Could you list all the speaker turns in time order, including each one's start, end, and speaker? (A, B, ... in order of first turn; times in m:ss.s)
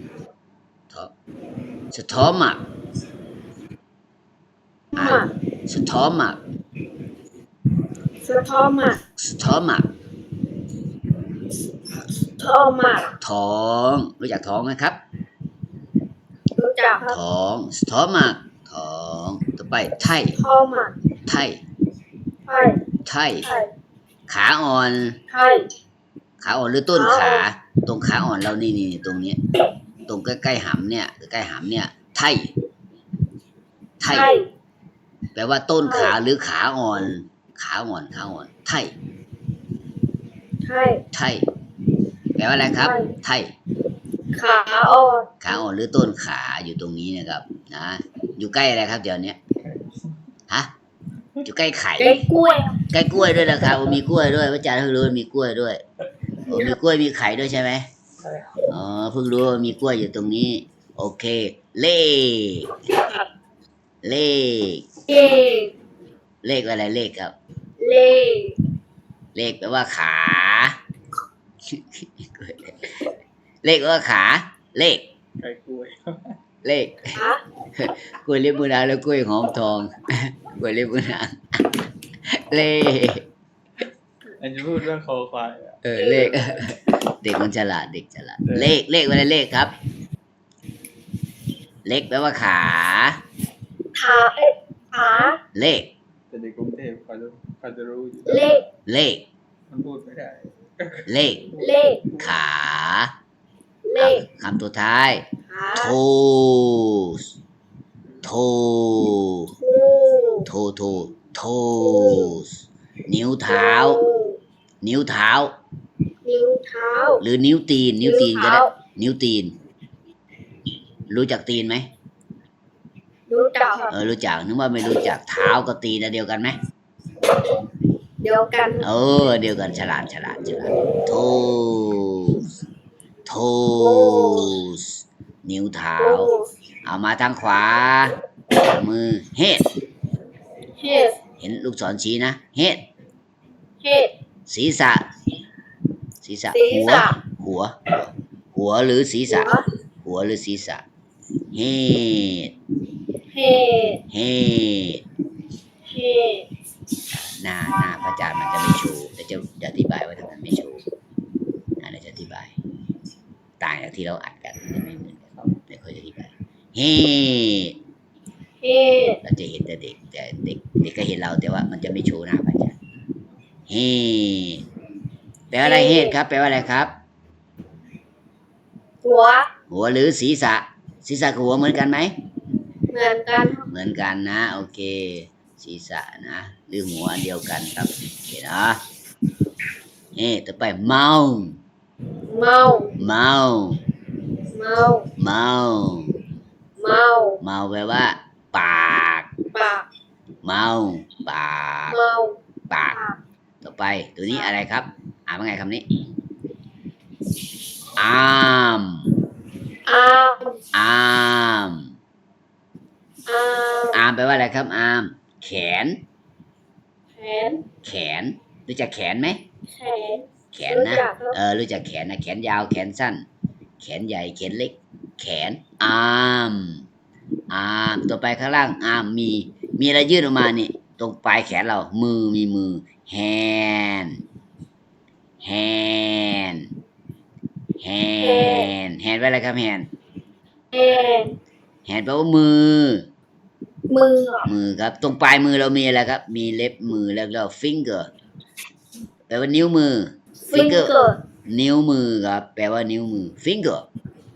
0:01.9-0:02.6 A
0:05.0-0:05.3 B
0:05.0-0:06.4 A
0:08.2-0:09.0 B
0:09.2-0:09.9 A
0:12.4-0:13.1 B
0:13.2-0:15.0 A
0:16.6-0:17.2 B
0:17.1-0:20.4 A
0:20.4-0:21.0 B
0:21.2-0:21.6 A
0:22.5-0:22.8 B
0:23.0-0:23.5 A
0:23.4-0:23.7 B
0:24.3-0:25.2 A
0:25.3-0:25.7 B
0:26.4-0:29.4 A
0:27.0-0:27.4 B
0:30.1-0:32.5 A
0:34.0-0:34.3 A
0:34.1-0:34.5 B
0:35.4-0:38.9 A
0:35.8-0:36.1 B
0:40.6-0:41.0 B
0:41.1-0:41.5 A
0:42.4-0:43.5 A
0:42.8-0:43.1 B
0:44.3-0:45.4 B
0:45.4-0:49.4 A
0:49.6-0:50.1 C
0:51.4-0:52.2 A
0:52.0-0:52.8 B
0:52.9-0:55.8 A
0:56.5-0:56.8 B
0:56.5-0:57.9 A
0:58.2-0:58.6 C
0:58.7-1:02.7 A
1:03.0-1:03.2 B
1:04.0-1:04.9 A
1:05.1-1:05.7 B
1:06.4-1:07.4 A
1:07.8-1:08.6 B
1:09.4-1:10.8 A
1:11.7-1:13.1 A
1:13.6-1:15.1 A
1:15.4-1:16.4 C
1:16.6-1:17.2 A
1:17.2-1:17.4 B
1:17.8-1:23.3 A
1:24.4-1:25.8 C
1:25.8-1:29.7 A
1:28.4-1:28.8 C
1:31.9-1:33.2 A
1:34.0-1:35.4 B
1:35.6-1:35.9 A
1:36.3-1:38.6 C
1:38.3-1:38.6 B
1:38.9-1:39.2 A
1:39.7-1:42.3 C
1:41.1-1:41.5 A
1:41.6-1:42.0 B
1:42.2-1:43.1 A
1:43.8-1:44.2 B
1:44.0-1:47.3 A
1:45.5-1:46.0 B
1:48.2-1:49.6 A
1:49.6-1:50.5 B
1:50.4-1:54.0 A
1:51.8-1:52.3 B
1:53.5-1:54.4 B
1:54.8-1:55.5 A
1:56.2-1:57.2 B
1:57.2-1:59.6 A
1:58.0-1:58.7 B
2:01.1-2:01.9 A
2:03.3-2:03.9 B
2:03.9-2:06.6 A
2:08.2-2:08.8 B
2:08.8-2:12.5 A
2:13.3-2:16.3 A
2:13.8-2:14.6 B
2:16.0-2:16.5 B
2:16.8-2:19.7 A
2:20.8-2:21.2 B
2:21.4-2:22.9 A
2:23.8-2:24.1 B
2:24.5-2:25.1 A
2:26.2-2:30.8 A
2:26.5-2:27.2 B
2:29.3-2:29.6 B
2:31.5-2:32.5 A
2:33.3-2:34.0 B
2:34.1-2:35.0 A
2:35.9-2:36.5 B
2:37.1-2:40.8 A
2:41.8-2:42.6 A
2:43.6-2:47.8 A
2:48.6-2:49.2 B
2:49.2-2:52.8 A
2:53.7-2:54.6 A
2:55.5-2:57.0 A
2:55.6-2:56.2 B
2:59.0-2:59.5 B
2:59.7-3:02.2 A
3:02.9-3:03.7 B
3:03.7-3:08.8 A
3:10.2-3:11.6 A
3:12.3-3:12.9 B
3:13.0-3:13.8 A
3:14.5-3:15.1 B
3:15.2-3:16.2 A
3:16.8-3:17.4 B
3:17.4-3:19.3 A
3:19.5-3:19.9 B
3:20.4-3:22.0 A
3:21.9-3:22.4 B
3:22.7-3:23.0 A
3:22.9-3:23.2 B
3:23.6-3:25.8 A
3:28.0-3:29.1 A
3:29.9-3:30.6 B
3:30.7-3:31.9 A
3:33.3-3:34.0 B
3:33.9-3:36.0 A
3:37.2-3:37.6 B
3:37.8-3:39.4 A
3:39.7-3:41.4 B
3:40.5-3:43.3 A
3:43.8-3:46.8 A
3:47.5-3:54.2 A
3:55.4-3:56.7 A
3:57.8-3:59.9 A
3:58.2-3:58.7 B
4:00.7-4:01.4 B
4:01.9-4:03.1 A
4:03.9-4:04.5 B
4:04.4-4:08.1 A
4:09.3-4:10.9 A
4:10.5-4:11.2 B
4:11.5-4:13.9 A